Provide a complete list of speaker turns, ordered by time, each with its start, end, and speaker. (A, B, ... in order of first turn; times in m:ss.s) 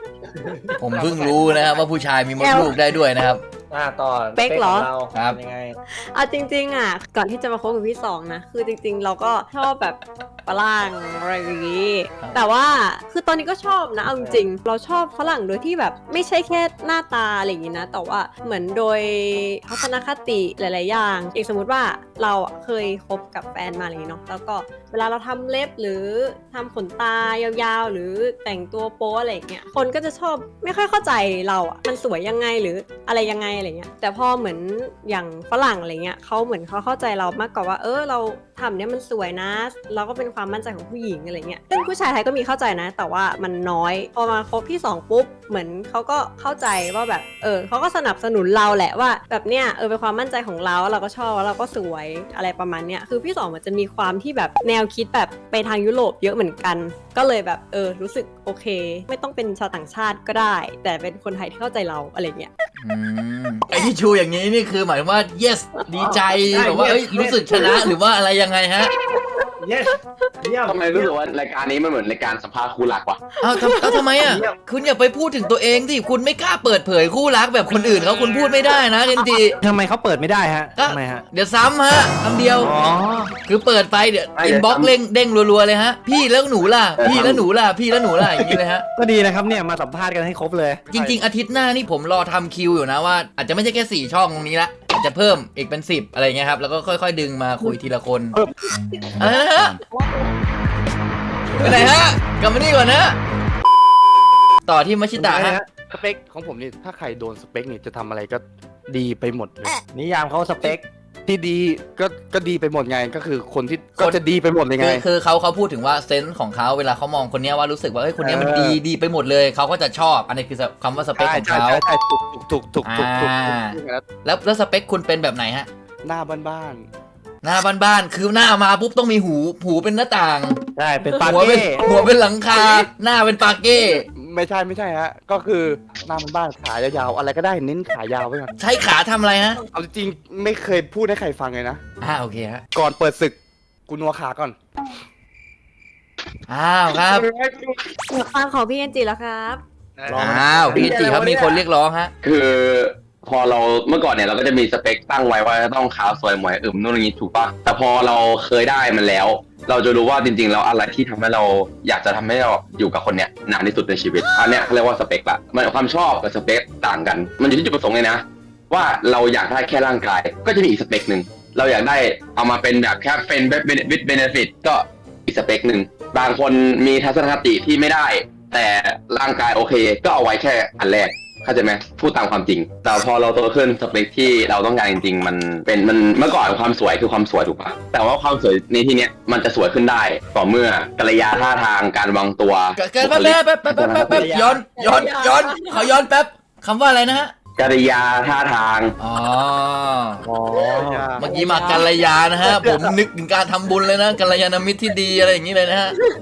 0:00.4-0:01.1 A
0:00.8-0:03.4 B
0:02.4-0:02.7 C
0:03.7-0:05.8 A
0:04.4-0:04.9 C
0:05.9-1:02.5 C
0:12.2-0:12.5 B
0:14.1-0:14.4 A
1:02.8-1:08.9 B
1:06.1-1:07.8 A
1:09.6-1:11.1 A
1:10.7-1:13.2 D
1:13.4-1:19.6 B
1:13.8-1:14.0 C
1:13.8-1:14.6 A
1:19.6-1:21.2 A
1:20.8-1:22.7 B
1:22.6-1:23.3 A
1:23.4-1:28.9 B
1:24.4-1:24.9 D
1:27.0-1:27.4 D
1:28.2-1:30.8 A
1:30.9-1:38.4 B
1:30.9-1:31.2 E
1:38.9-1:40.3 C
1:39.2-1:39.8 B
1:41.6-1:43.2 B
1:44.7-1:45.6 B
1:45.2-1:45.7 A
1:45.9-1:49.8 E
1:49.9-1:50.8 A
1:51.3-1:55.0 E
1:54.8-2:01.8 B
1:58.2-1:58.8 A
2:01.2-2:04.0 E
2:02.8-2:05.7 B
2:06.0-2:06.9 E
2:07.4-2:14.0 B
2:10.8-2:11.8 A
2:11.8-2:12.9 E
2:14.0-2:18.5 E
2:18.6-2:19.6 B
2:19.7-2:21.8 E
2:22.0-2:22.6 B
2:22.7-2:23.4 E
2:23.9-2:24.6 E
2:26.5-2:27.3 B
2:26.9-2:27.9 E
2:28.1-2:29.6 C
2:30.0-2:31.4 E
2:30.1-2:31.1 A
2:30.2-2:32.1 B
2:30.7-2:31.6 D
2:32.2-3:14.4 D
3:12.8-3:17.3 B
3:14.1-3:14.6 A
3:14.8-3:15.9 C
3:17.6-3:19.0 D
3:19.0-3:20.2 B
3:20.3-3:21.1 A
3:20.6-3:21.9 E
3:21.2-3:26.0 B
3:21.2-3:21.9 C
3:22.4-3:23.0 E